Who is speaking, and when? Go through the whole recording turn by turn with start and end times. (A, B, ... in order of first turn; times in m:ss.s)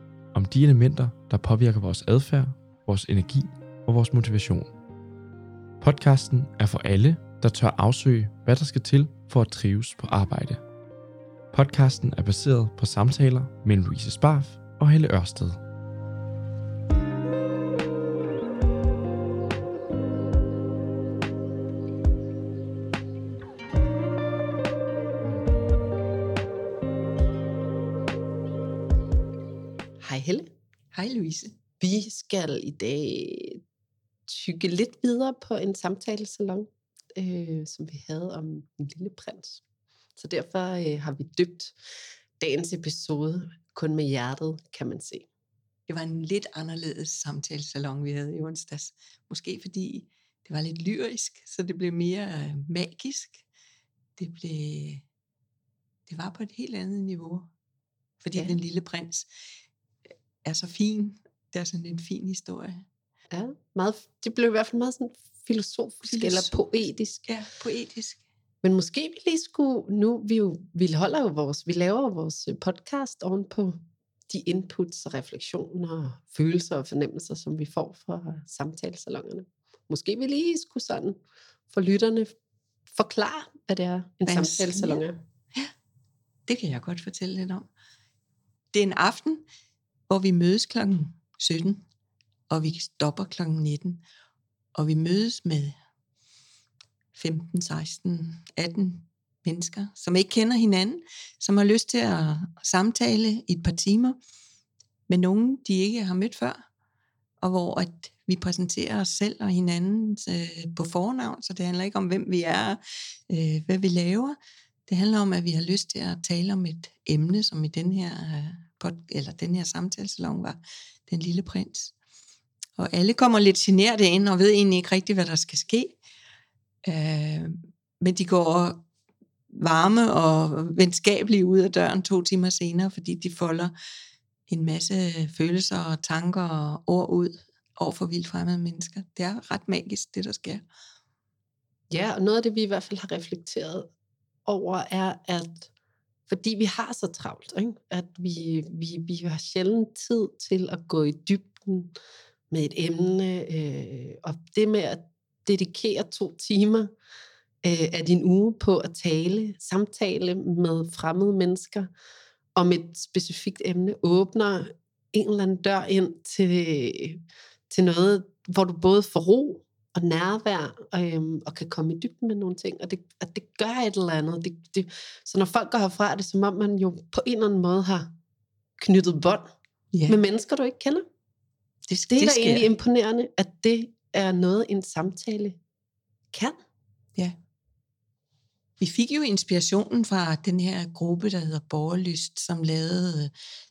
0:00.3-0:04.7 A
0:05.8-0:10.6 A
0:11.5-0:15.6 A
0:30.0-0:30.5 B
0:30.9-0:31.5 C
0:31.8-0:33.6 B
0:34.3-0:39.6 B
0:40.2-0:41.8 B
0:42.4-0:45.2 B
0:45.9-0:53.4 C
0:54.2-0:55.0 C
0:56.1-0:57.5 C
0:58.2-0:59.3 C
1:00.4-1:02.8 C
1:03.3-1:07.3 B
1:06.1-1:06.7 C
1:07.3-1:08.2 C
1:08.6-1:21.2 B
1:21.7-1:22.3 B
1:22.9-1:25.2 B
1:24.2-1:25.0 C
1:26.5-1:27.7 C
1:28.7-1:29.4 C
1:30.1-1:31.8 C
1:32.5-1:34.0 C
1:34.7-1:35.8 C
1:37.1-1:44.2 C
1:45.1-1:46.6 C
1:47.4-2:01.9 C
2:02.8-2:06.0 C
2:06.8-2:08.8 C
2:09.5-2:13.7 C
2:14.5-2:20.6 C
2:21.9-2:23.9 B
2:24.5-2:25.7 B
2:26.3-2:31.9 B
2:32.5-2:36.9 B
2:37.6-2:41.9 B
2:42.6-2:58.1 B
2:58.8-2:59.5 B
2:59.9-3:00.2 C
3:00.1-3:01.0 B
3:01.9-3:02.7 C
3:02.1-3:05.6 B
3:06.3-3:06.6 B
3:08.8-3:13.3 C